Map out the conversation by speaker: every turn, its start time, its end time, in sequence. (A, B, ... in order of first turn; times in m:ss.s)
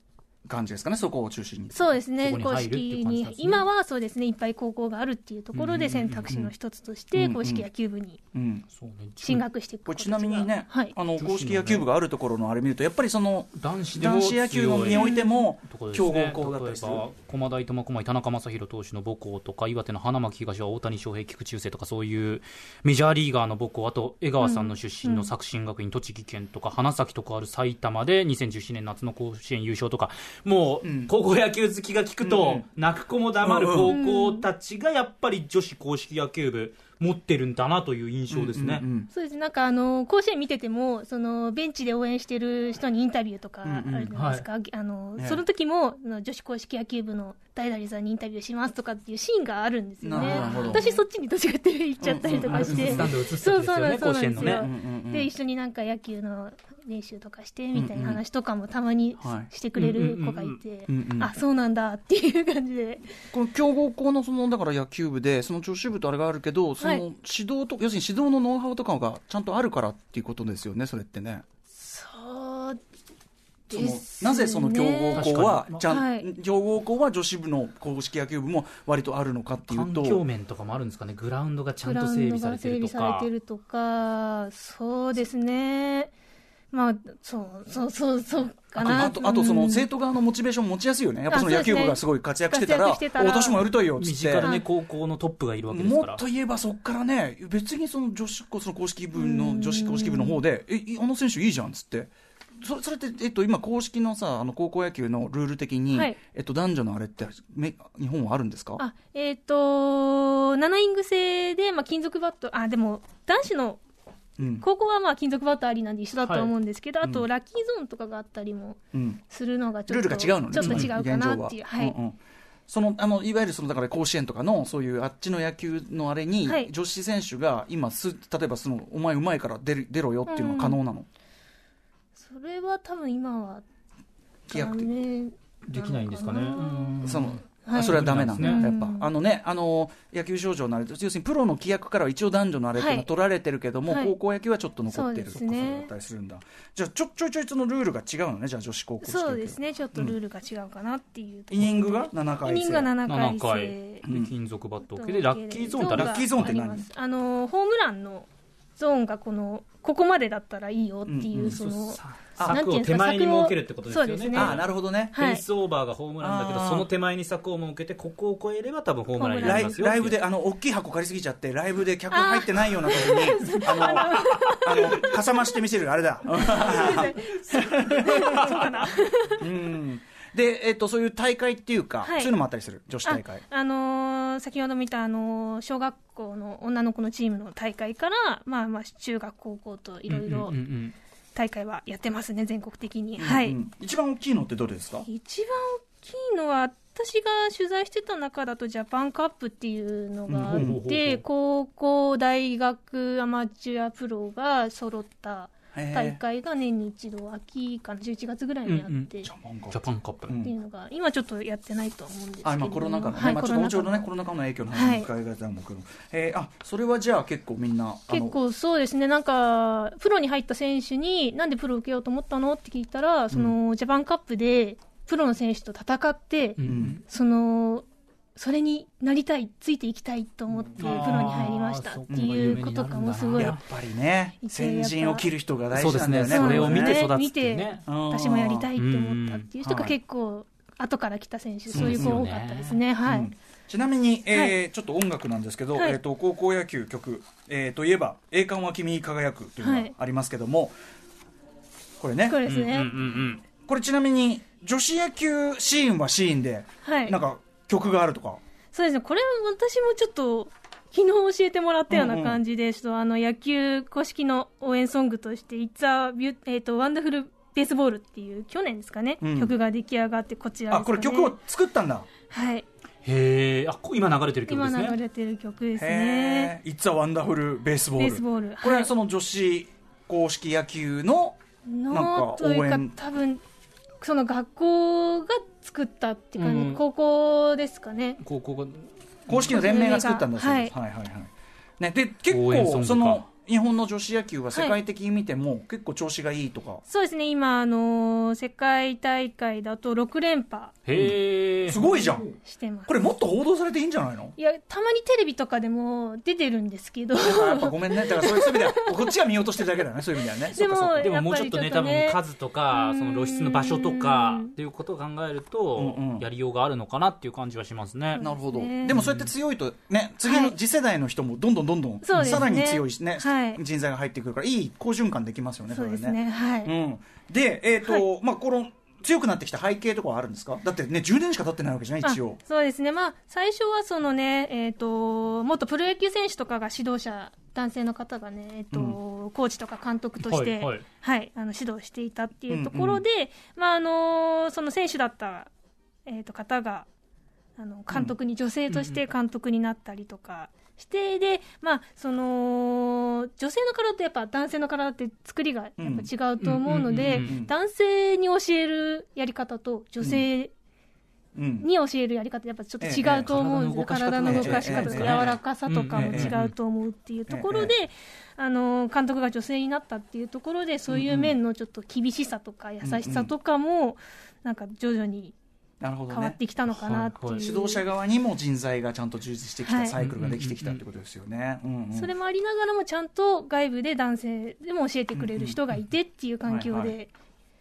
0:00.5-0:02.0 A
0:01.7-0:08.2 B
0:02.2-0:03.6 C
0:05.5-0:06.4 C
0:07.1-0:07.7 A
0:08.3-0:08.6 A
0:08.7-0:09.4 C
0:09.2-0:11.0 B
0:09.9-0:17.0 A
0:11.2-0:11.9 C
0:13.5-0:15.1 C
0:14.8-0:15.4 B
0:15.6-0:38.8 C
0:24.4-0:25.3 B
0:30.8-0:31.1 A
0:32.2-0:32.6 A
0:33.4-0:34.0 A
0:33.9-0:34.5 B
0:38.3-0:39.1 A
0:39.1-1:03.1 B
0:43.6-0:44.1 A
0:44.1-0:44.5 C
0:45.2-0:45.4 A
0:50.0-0:50.9 A
0:50.2-0:51.0 C
0:52.0-0:53.1 A
0:52.3-0:54.7 C
0:54.4-0:55.3 A
0:57.7-0:58.2 A
0:59.2-0:59.5 A
0:59.8-1:00.6 C
1:00.9-1:01.3 A
1:03.3-1:11.4 A
1:06.8-1:07.0 B
1:11.7-1:12.8 B
1:13.7-1:16.3 B
1:13.7-1:20.2 A
1:15.2-1:15.8 C
1:19.7-1:23.3 C
1:21.8-1:26.1 B
1:26.7-1:29.9 B
1:28.8-1:34.5 A
1:31.3-1:33.7 B
1:34.0-1:36.2 C
1:34.4-1:34.7 B
1:35.7-1:48.8 A
1:39.2-1:40.4 B
1:45.9-1:46.2 B
1:48.8-1:53.8 B
1:54.4-1:54.6 A
1:54.6-2:02.0 B
1:56.2-1:56.5 C
1:57.0-1:57.3 A
1:58.9-1:59.2 A
1:59.9-2:11.1 A
2:00.6-2:00.9 C
2:06.4-2:06.7 B
2:10.3-2:10.8 B
2:12.2-2:13.6 B
2:14.5-2:19.1 B
2:14.5-2:14.9 A
2:15.7-2:18.6 C
2:17.0-2:30.2 A
2:22.8-2:23.1 B
2:23.9-2:24.2 B
2:24.9-2:25.9 B
2:29.0-2:34.0 B
2:31.5-2:32.9 A
2:33.0-2:36.2 C
2:34.1-2:34.3 A
2:34.9-2:44.6 B
2:35.9-2:36.9 A
2:41.0-2:41.6 A
2:41.5-2:50.2 C
2:44.3-2:45.2 A
2:45.1-2:45.4 B
2:46.2-2:46.9 A
2:49.2-2:50.0 B
2:49.4-2:58.7 A
2:52.1-2:55.3 B
2:53.9-2:54.6 C
2:56.4-2:59.4 B
2:56.7-2:57.3 C
2:58.3-2:58.7 C
2:59.4-3:03.4 A
3:02.0-3:02.4 B
3:03.0-3:10.6 B
3:10.1-3:11.0 C
3:11.4-3:13.6 B
3:13.2-3:15.1 A
3:15.1-3:29.3 B
3:20.3-3:20.8 A
3:20.5-3:21.2 C
3:25.7-3:26.2 A
3:28.7-3:29.1 C
3:29.2-3:30.5 A
3:29.7-3:30.4 C
3:30.4-3:34.1 B
3:32.4-3:38.4 A
3:34.7-3:35.1 B
3:38.1-3:53.6 B
3:46.6-3:47.0 C
3:46.6-3:47.0 A
3:50.8-3:53.6 C
3:50.8-3:51.1 A
3:52.1-3:52.6 A
3:53.4-3:57.0 A
3:54.4-3:55.3 B
3:55.7-3:57.8 C
3:56.3-4:03.3 B
3:57.8-3:58.7 A
3:58.8-3:59.5 C
3:59.6-4:00.0 A
4:01.7-4:02.8 C
4:01.7-4:02.2 A
4:03.0-4:10.8 A
4:04.3-4:04.6 B
4:09.6-4:09.9 B
4:12.0-4:12.4 A
4:12.3-4:12.9 B
4:12.5-4:13.4 C
4:13.6-4:18.4 A
4:16.8-4:17.2 B
4:18.7-4:31.4 B
4:21.9-4:22.4 A
4:29.2-4:29.5 A
4:30.7-4:32.1 A
4:32.3-4:32.7 B
4:33.0-4:35.0 C
4:34.5-4:36.5 B
4:35.8-4:41.4 A
4:38.0-4:38.9 B
4:41.7-4:43.4 B
4:41.9-4:43.0 A
4:44.0-4:48.2 B
4:46.4-4:46.8 C
4:48.2-4:49.5 C
4:49.3-4:56.8 A
4:49.4-4:50.7 B
4:52.3-4:53.2 C
4:54.5-4:54.8 B
4:56.9-5:00.8 B
5:00.8-5:02.3 C
5:00.9-5:02.3 A
5:01.9-5:03.0 B
5:02.9-5:04.4 A
5:04.4-5:09.2 B
5:07.2-5:11.1 A
5:10.5-5:12.2 B
5:11.0-5:18.2 C
5:12.7-5:14.5 B
5:15.8-5:16.3 A
5:18.1-5:19.0 B
5:18.2-5:32.4 A
5:19.0-5:19.3 C
5:20.2-5:20.6 B
5:22.0-5:23.6 B
5:22.2-5:22.5 C
5:25.7-5:26.7 B
5:32.0-5:45.5 B
5:38.7-5:39.0 A
5:40.2-5:40.8 C
5:42.5-5:43.0 A
5:46.0-5:46.9 B
5:47.6-6:00.5 B
5:48.7-5:49.0 C
5:55.8-5:56.1 A
5:56.4-5:57.4 C
5:57.1-5:57.5 A
6:01.4-6:01.7 A
6:01.6-6:15.4 B
6:02.8-6:03.3 A
6:03.1-6:06.5 C
6:04.2-6:05.2 A
6:06.0-6:06.4 A
6:07.3-6:07.8 A
6:10.9-6:11.4 A
6:12.8-6:13.3 A
6:15.8-6:16.4 A
6:16.1-6:17.8 B
6:16.7-6:17.4 C
6:17.3-6:22.1 A
6:19.6-6:20.0 B
6:20.0-6:20.8 C
6:21.9-6:27.1 B
6:25.1-6:25.6 A
6:26.4-6:27.0 A